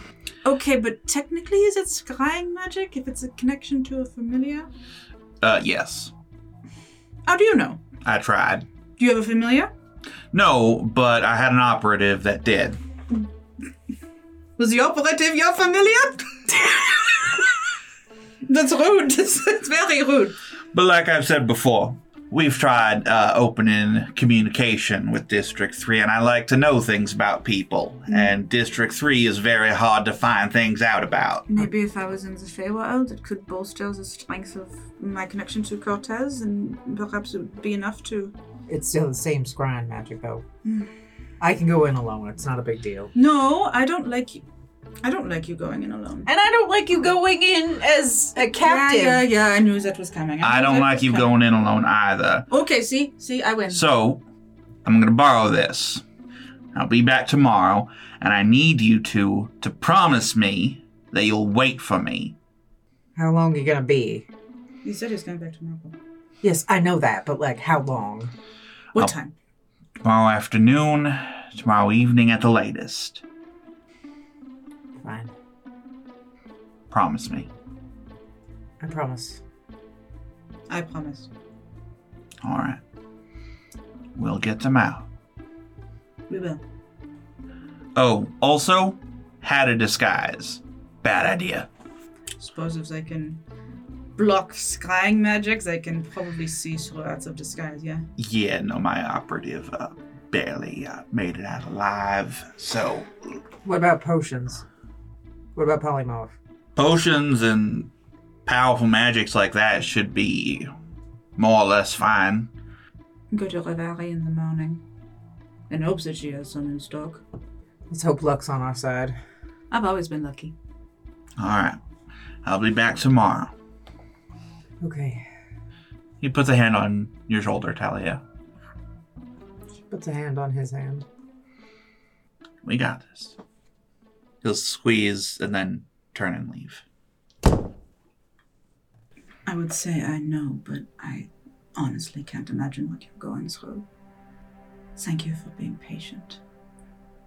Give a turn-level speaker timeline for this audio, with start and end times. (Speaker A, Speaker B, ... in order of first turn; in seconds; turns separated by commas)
Speaker A: 0.4-4.7, Speaker B: 5.4-6.1, Speaker A: 7.3-7.8, Speaker B: 8.0-8.7, Speaker A: 9.0-9.7, Speaker B: 10.3-12.8, Speaker A: 14.6-17.5, Speaker A: 18.5-20.4, Speaker B: 20.7-31.5, Speaker A: 31.5-38.3, Speaker C: 38.7-40.4, Speaker A: 40.6-40.9, Speaker C: 41.4-43.1, Speaker A: 43.1-44.4, Speaker A: 45.0-46.3, Speaker C: 46.3-49.2, Speaker A: 48.4-51.3, Speaker B: 50.4-52.5, Speaker A: 52.5-53.8, Speaker B: 53.7-54.2, Speaker B: 54.9-56.0, Speaker B: 56.7-62.4, Speaker C: 63.1-64.3, Speaker A: 64.8-66.0, Speaker C: 66.4-68.3, Speaker A: 68.9-69.3, Speaker B: 70.0-73.2, Speaker C: 75.0-75.3, Speaker B: 76.9-77.5, Speaker C: 78.8-79.4, Speaker A: 80.7-81.3, Speaker B: 82.4-82.8, Speaker B: 84.2-85.1, Speaker A: 86.3-86.6, Speaker B: 88.0-91.7, Speaker A: 92.4-93.4, Speaker A: 94.2-98.0, Speaker B: 98.2-103.2, Speaker C: 103.7-104.7, Speaker C: 105.5-106.3, Speaker B: 106.8-107.9, Speaker B: 108.5-110.7, Speaker B: 111.4-112.5, Speaker A: 113.3-114.8, Speaker A: 115.7-117.2, Speaker C: 117.9-119.2, Speaker A: 119.7-120.5, Speaker B: 121.4-121.8, Speaker B: 122.4-123.5, Speaker C: 124.8-125.3, Speaker B: 126.2-128.2, Speaker C: 129.9-131.1, Speaker B: 132.6-133.4, Speaker B: 134.4-136.8, Speaker A: 139.5-143.8, Speaker A: 145.0-146.4